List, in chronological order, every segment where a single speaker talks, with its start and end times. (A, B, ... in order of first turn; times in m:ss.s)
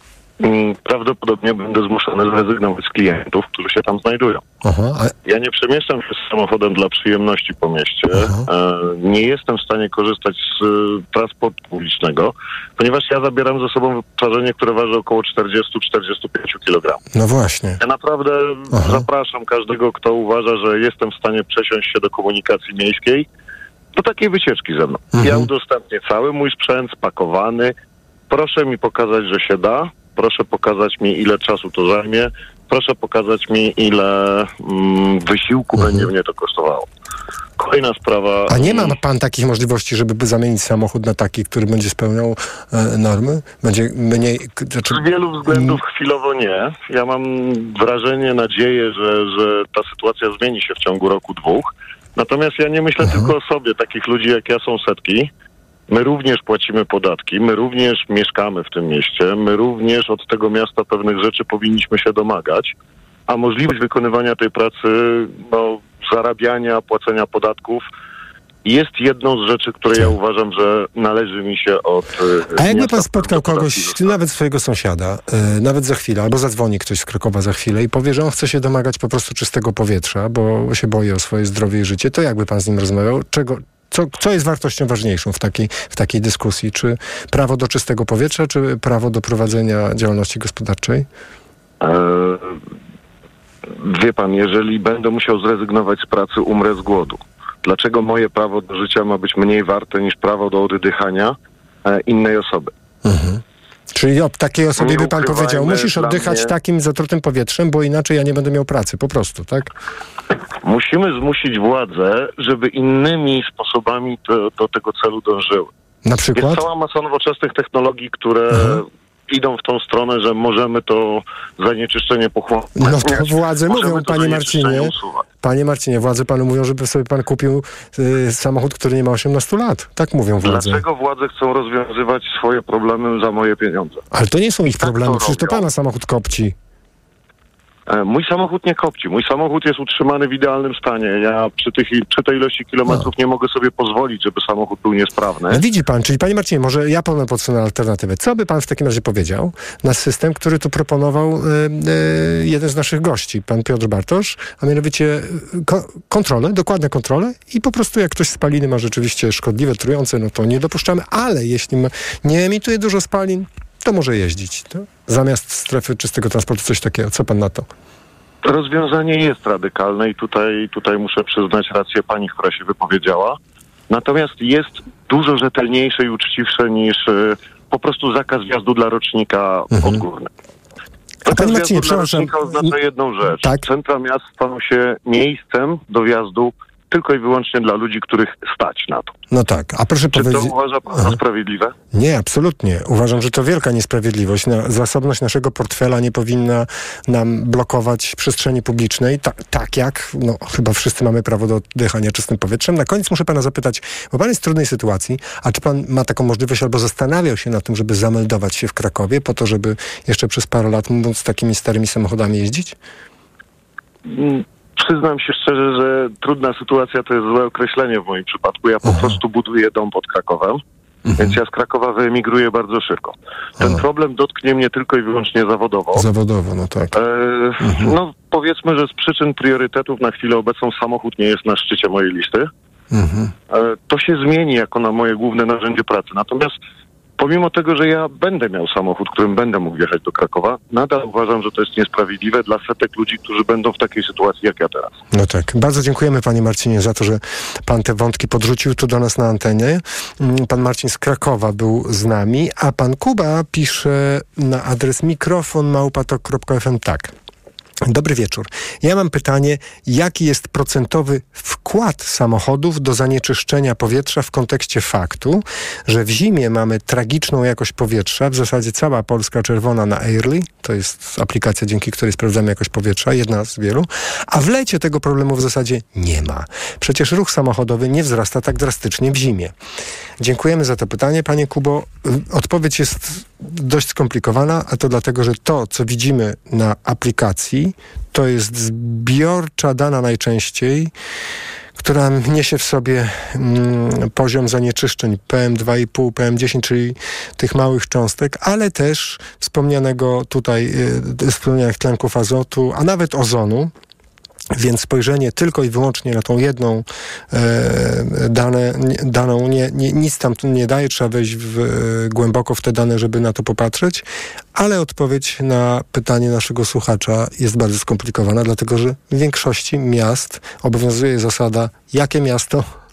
0:00.4-0:04.4 A
0:04.6-0:05.1 B
0:05.2-0:17.0 A
0:08.1-0:08.4 B
0:17.1-0:17.8 B
0:17.8-0:23.3 A
0:18.7-0:19.0 B
0:23.9-0:27.7 A
0:25.1-0:25.5 B
0:28.3-0:36.9 A
0:35.7-0:36.1 B
0:37.6-0:39.0 A
0:38.5-0:45.8 B
0:44.9-0:55.3 A
0:53.0-0:53.3 B
0:55.9-1:02.7 A
1:03.3-1:07.8 A
1:08.6-1:14.2 A
1:12.6-1:31.1 B
1:31.8-1:32.6 A
1:33.8-1:42.7 A
1:43.0-1:43.4 B
1:43.9-1:49.7 B
1:44.8-1:46.5 A
1:50.6-1:55.7 A
1:56.0-1:56.6 B
1:56.4-2:05.2 A
1:58.5-1:58.8 B
2:02.8-2:10.8 B
2:10.4-2:14.0 A
2:14.1-2:16.5 B
2:14.7-2:15.6 A
2:17.9-2:25.6 A
2:25.5-2:47.7 B
2:48.4-2:53.4 A
2:53.9-3:00.3 A
2:59.7-3:00.0 B
3:01.2-3:09.1 A
3:01.3-3:02.7 B
3:03.2-3:03.6 B
3:09.3-3:11.2 B
3:10.1-3:11.7 A
3:11.9-3:32.8 B
3:34.0-3:40.6 A
3:38.8-3:39.2 B
3:41.1-3:41.3 B
3:41.2-3:46.0 A
3:45.9-3:46.9 B
3:46.9-3:52.5 A
3:47.6-3:47.9 B
3:52.9-3:53.3 B
3:53.5-3:56.5 A
3:57.2-4:05.0 A
4:05.1-4:17.1 B
4:17.9-4:39.5 B
4:40.2-4:50.9 B
4:51.8-5:03.7 B
5:04.5-5:22.7 B